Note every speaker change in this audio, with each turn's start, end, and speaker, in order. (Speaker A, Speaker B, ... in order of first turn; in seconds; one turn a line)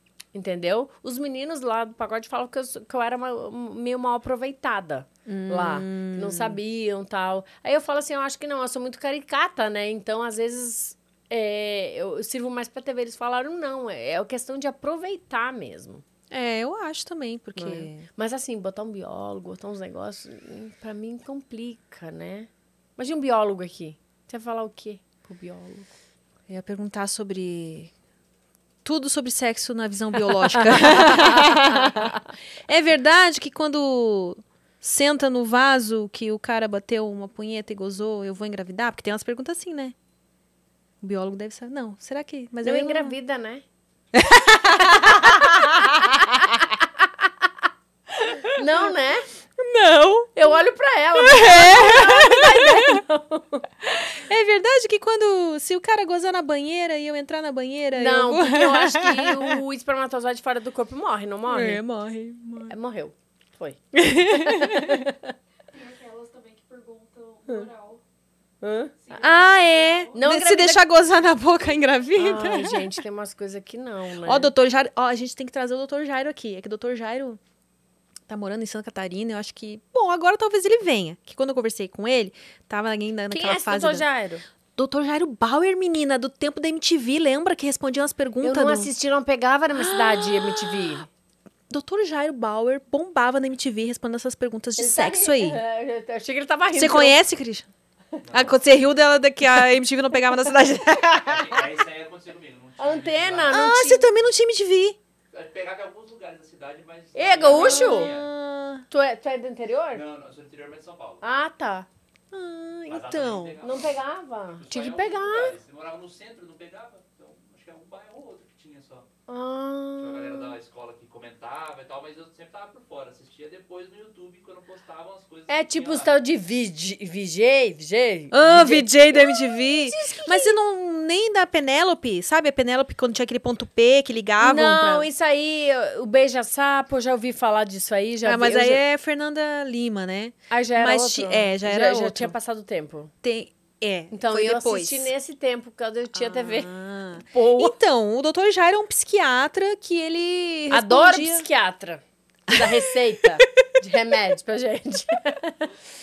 Speaker A: 0.3-16.0
Speaker B: 5.3-6.6
Speaker B: 16.3-18.1
Speaker A: 17.6-25.9
Speaker B: 26.5-27.9
Speaker B: 28.8-40.0
Speaker A: 30.8-32.2
Speaker B: 41.0-43.1
Speaker A: 42.6-43.6
Speaker B: 44.1-46.2
Speaker A: 45.0-47.3
Speaker B: 48.2-48.6
Speaker A: 48.5-49.3
Speaker B: 49.6-50.4
Speaker A: 50.4-53.7
Speaker B: 51.2-53.0
Speaker B: 53.8-59.6
Speaker A: 57.9-61.8
Speaker B: 61.5-62.7
Speaker A: 62.7-65.3
Speaker B: 63.9-65.1
Speaker C: 65.7-68.0
Speaker A: 68.6-69.0
Speaker C: 69.0-70.2
Speaker B: 69.1-73.0
Speaker A: 70.1-70.8
Speaker A: 72.2-74.5
Speaker B: 74.2-77.4
Speaker B: 78.3-84.1
Speaker A: 83.3-84.5
Speaker B: 84.8-88.9
Speaker A: 88.4-91.1
Speaker B: 89.8-91.0
Speaker B: 91.7-95.6
Speaker A: 94.8-97.2
Speaker B: 96.7-97.7
Speaker D: 98.2-98.6
Speaker B: 98.3-101.7
Speaker D: 101.1-103.6
Speaker A: 102.8-104.1
Speaker B: 103.5-105.0
Speaker D: 105.3-108.3
Speaker A: 107.2-108.1
Speaker B: 107.5-108.9
Speaker A: 108.9-110.0
Speaker D: 109.9-111.2
Speaker A: 111.2-111.9
Speaker B: 112.3-113.6
Speaker D: 112.9-114.0
Speaker A: 113.6-115.6
Speaker D: 114.6-119.1
Speaker A: 119.3-120.6
Speaker D: 120.0-126.2
Speaker A: 125.5-130.6
Speaker B: 128.3-135.1
Speaker A: 134.4-138.8
Speaker B: 138.2-142.3
Speaker A: 140.5-143.1
Speaker B: 143.2-145.1
Speaker A: 144.1-146.7
Speaker B: 146.1-151.5
Speaker A: 147.3-147.8
Speaker A: 150.7-155.7
Speaker B: 152.5-152.8